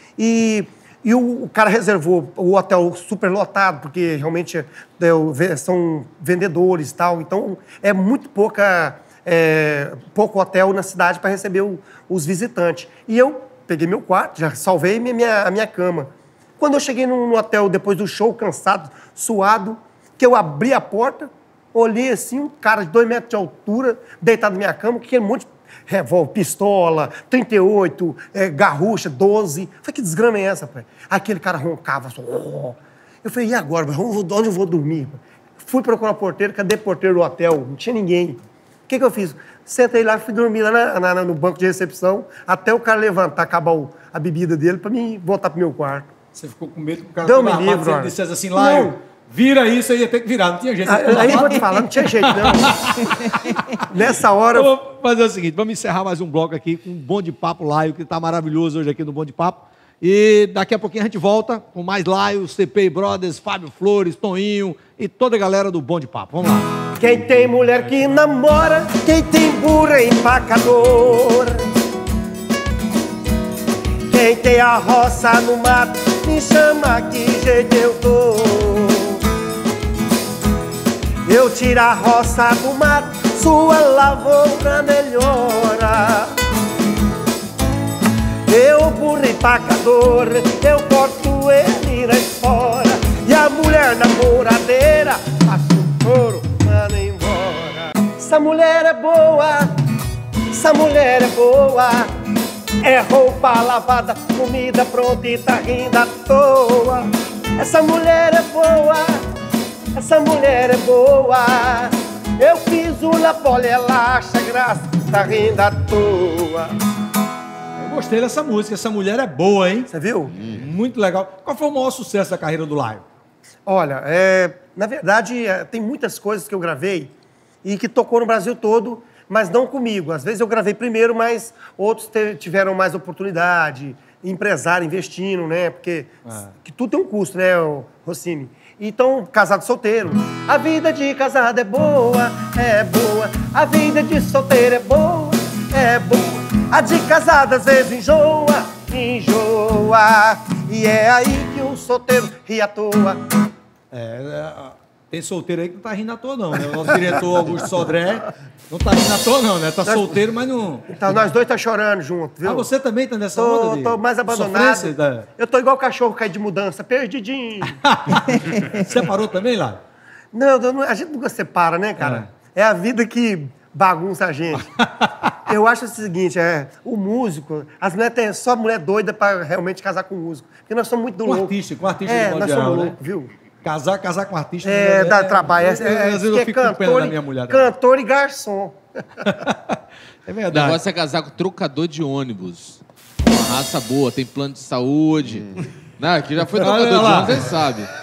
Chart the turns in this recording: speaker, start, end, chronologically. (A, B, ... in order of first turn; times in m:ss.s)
0:00.2-0:46.1 A
0:46.3-0:53.9 B
0:47.2-0:49.0 A
0:50.8-0:52.8 A
0:53.8-0:54.7 A
0:54.6-1:06.9 B
1:07.0-1:11.7 A
1:14.1-1:19.2 A
1:21.2-1:26.4 A
1:28.5-1:39.7 A
1:40.5-1:42.1 A
1:42.8-1:49.2 A
1:50.0-1:56.8 A
1:57.8-1:59.9 B
1:59.9-2:00.4 A
2:00.5-2:03.0 B
2:03.7-2:07.1 A
2:07.6-2:33.2 A
2:16.3-2:16.5 B
2:33.9-2:41.0 B
2:39.8-2:40.2 A
2:40.9-2:42.7 A
2:42.4-2:45.3 B
2:43.3-2:47.8 A
2:47.8-2:49.8 B
2:50.3-2:54.7 A
2:52.0-2:52.3 B
2:54.6-2:55.3 B
2:55.5-3:03.3 A
3:01.3-3:03.0 B
3:03.6-3:07.7 B
3:04.6-3:09.3 A
3:09.2-3:10.8 B
3:10.5-3:17.9 C
3:16.6-3:17.5 B